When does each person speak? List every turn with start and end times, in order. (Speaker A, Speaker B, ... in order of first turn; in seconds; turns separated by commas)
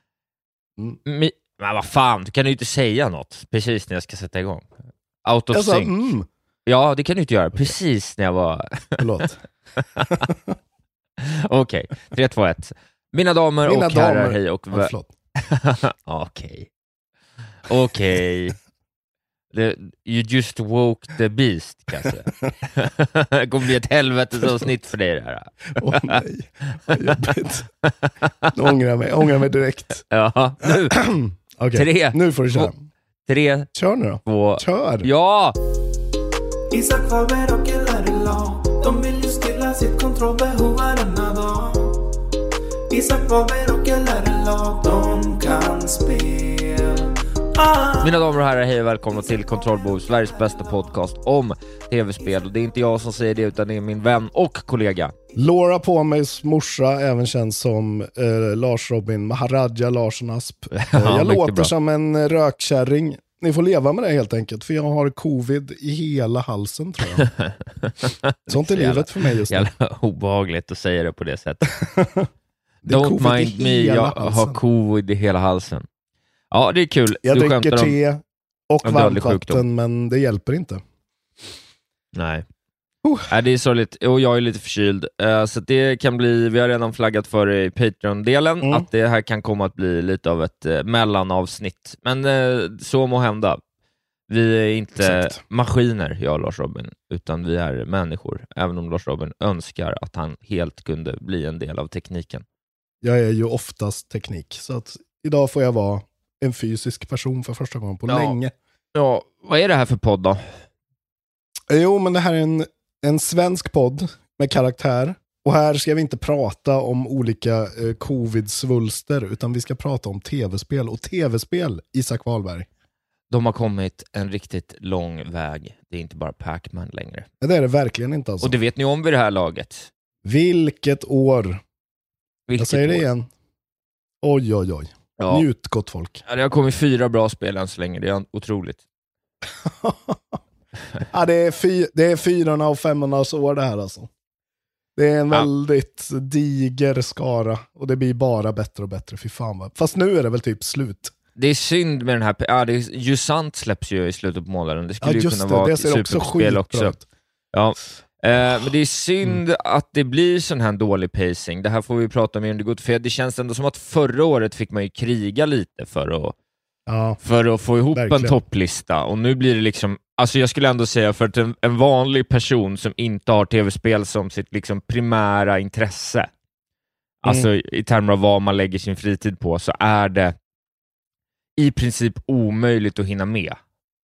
Speaker A: 1.0-4.7, Speaker A: 5.2-5.9, Speaker B: 5.5-6.3, Speaker A: 6.7-9.0, Speaker B: 9.0-9.4, Speaker B: 10.1-10.5, Speaker A: 11.2-16.7, Speaker B: 13.6-15.1, Speaker A: 17.7-18.6, Speaker A: 19.5-26.2, Speaker B: 25.8-27.7, Speaker A: 26.9-27.2, Speaker A: 27.8-28.5, Speaker B: 28.5-30.1, Speaker A: 30.1-31.0, Speaker B: 30.9-32.8, Speaker A: 31.7-32.7, Speaker A: 33.3-33.7, Speaker B: 33.7-35.1, Speaker A: 34.2-35.6, Speaker C: 36.7-42.1, Speaker C: 42.9-47.0, Speaker C: 47.5-48.1, Speaker A: 48.0-55.1, Speaker C: 50.2-50.7, Speaker B: 55.4-67.3, Speaker A: 60.7-61.7, Speaker A: 67.4-71.7, Speaker B: 68.5-69.7, Speaker B: 71.8-72.3, Speaker B: 72.8-74.6, Speaker A: 72.9-75.8, Speaker A: 76.5-78.0, Speaker B: 77.2-80.8, Speaker A: 78.8-79.6, Speaker A: 82.1-82.5, Speaker B: 83.0-83.3, Speaker A: 83.3-93.6, Speaker B: 88.6-88.8, Speaker A: 94.3-102.4, Speaker B: 95.0-95.3, Speaker B: 103.0-108.5, Speaker A: 108.1-108.4, Speaker A: 108.9-110.6, Speaker B: 111.7-122.7, Speaker A: 123.3-127.3, Speaker B: 127.4-128.6, Speaker A: 128.4-129.9, Speaker B: 130.2-131.6, Speaker A: 132.5-133.0, Speaker B: 132.6-133.3, Speaker B: 134.2-136.2, Speaker A: 135.2-135.4, Speaker A: 136.2-138.8, Speaker B: 139.6-140.4, Speaker B: 141.1-144.1, Speaker B: 144.9-151.1, Speaker A: 151.3-156.9, Speaker B: 155.0-157.1, Speaker A: 157.5-166.3, Speaker B: 166.9-167.2, Speaker A: 167.2-176.3, Speaker B: 167.9-168.4, Speaker A: 177.2-180.3, Speaker A: 181.6-183.6